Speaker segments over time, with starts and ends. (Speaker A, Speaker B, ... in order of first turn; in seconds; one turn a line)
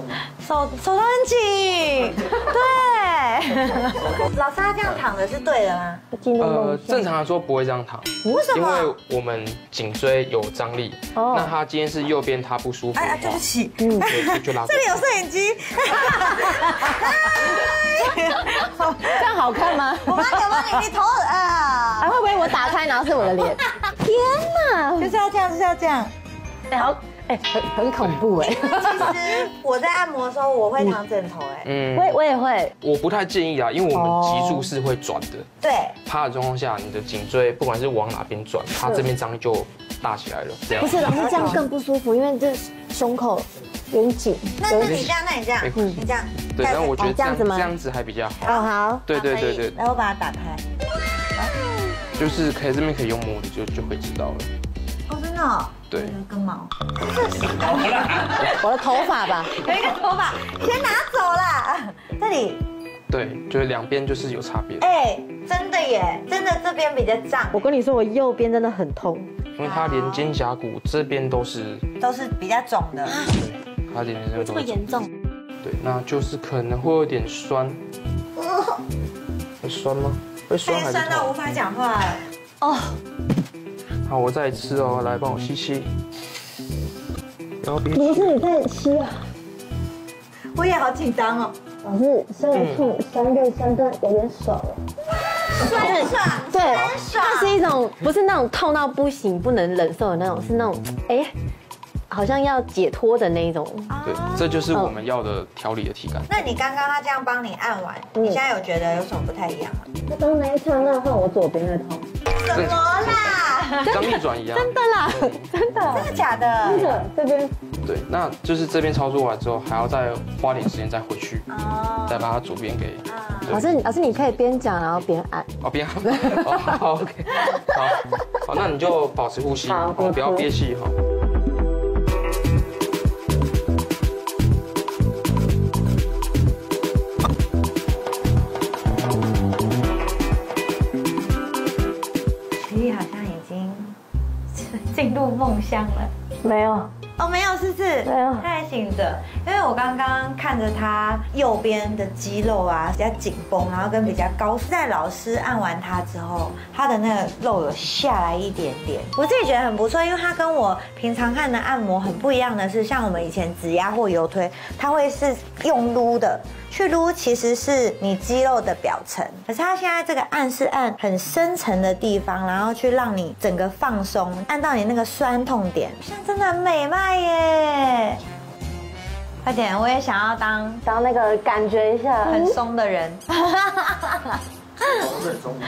Speaker A: 0.4-6.0
Speaker B: 6.1-7.1
Speaker C: 6.4-13.4
Speaker A: 8.2-8.9
Speaker B: 11.2-11.5
Speaker A: 12.9-23.9
Speaker B: 13.8-14.2
Speaker C: 14.0-15.0
Speaker B: 16.4-17.6
Speaker B: 18.3-20.8
Speaker B: 22.0-25.2
Speaker A: 25.0-26.1
Speaker B: 26.7-29.2
Speaker C: 28.0-28.3
Speaker A: 28.4-31.7
Speaker C: 31.6-32.2
Speaker B: 31.9-32.7
Speaker C: 32.8-35.5
Speaker B: 33.9-34.7
Speaker A: 35.6-36.0
Speaker C: 36.0-41.5
Speaker B: 38.8-39.1
Speaker B: 40.8-45.1
Speaker A: 40.9-41.6
Speaker A: 44.6-47.1
Speaker C: 44.8-48.5
Speaker B: 47.0-47.7
Speaker A: 48.4-50.6
Speaker B: 48.5-49.1
Speaker C: 49.1-49.8
Speaker C: 52.2-54.5
Speaker A: 55.1-62.6
Speaker C: 55.9-56.2
Speaker B: 58.4-59.6
Speaker C: 63.1-64.9
Speaker A: 64.8-67.7
Speaker B: 67.5-69.3
Speaker C: 69.6-71.8
Speaker A: 69.6-70.3
Speaker A: 72.0-73.2
Speaker B: 73.1-73.4
Speaker C: 73.3-75.0
Speaker B: 74.4-75.1
Speaker C: 75.6-77.8
Speaker C: 79.6-81.3
Speaker A: 80.7-82.2
Speaker B: 82.6-83.0
Speaker C: 84.1-85.9
Speaker C: 87.6-88.4
Speaker B: 87.9-89.3
Speaker A: 90.5-91.5
Speaker B: 91.8-94.8
Speaker C: 92.5-92.9
Speaker A: 95.5-97.6
Speaker B: 95.6-101.3
Speaker C: 96.7-97.0
Speaker B: 102.1-104.0
Speaker A: 103.9-104.7
Speaker C: 104.0-106.3
Speaker B: 104.7-105.0
Speaker A: 106.3-109.9
Speaker B: 108.2-108.4
Speaker B: 110.1-112.1
Speaker A: 112.4-114.0
Speaker C: 112.5-115.5
Speaker B: 113.8-116.1
Speaker A: 115.9-117.0
Speaker B: 116.6-117.5
Speaker C: 117.8-121.5
Speaker A: 121.5-122.3
Speaker C: 122.1-123.7
Speaker A: 123.1-123.7
Speaker B: 123.5-125.5
Speaker C: 125.6-131.0
Speaker B: 126.0-126.8
Speaker B: 127.4-128.3
Speaker B: 129.7-130.5
Speaker A: 142.6-144.0
Speaker A: 144.5-146.1
Speaker B: 146.4-146.9
Speaker A: 147.2-178.2
Speaker B: 148.0-148.5
Speaker A: 179.4-180.8
Speaker B: 180.8-182.6
Speaker A: 182.2-185.1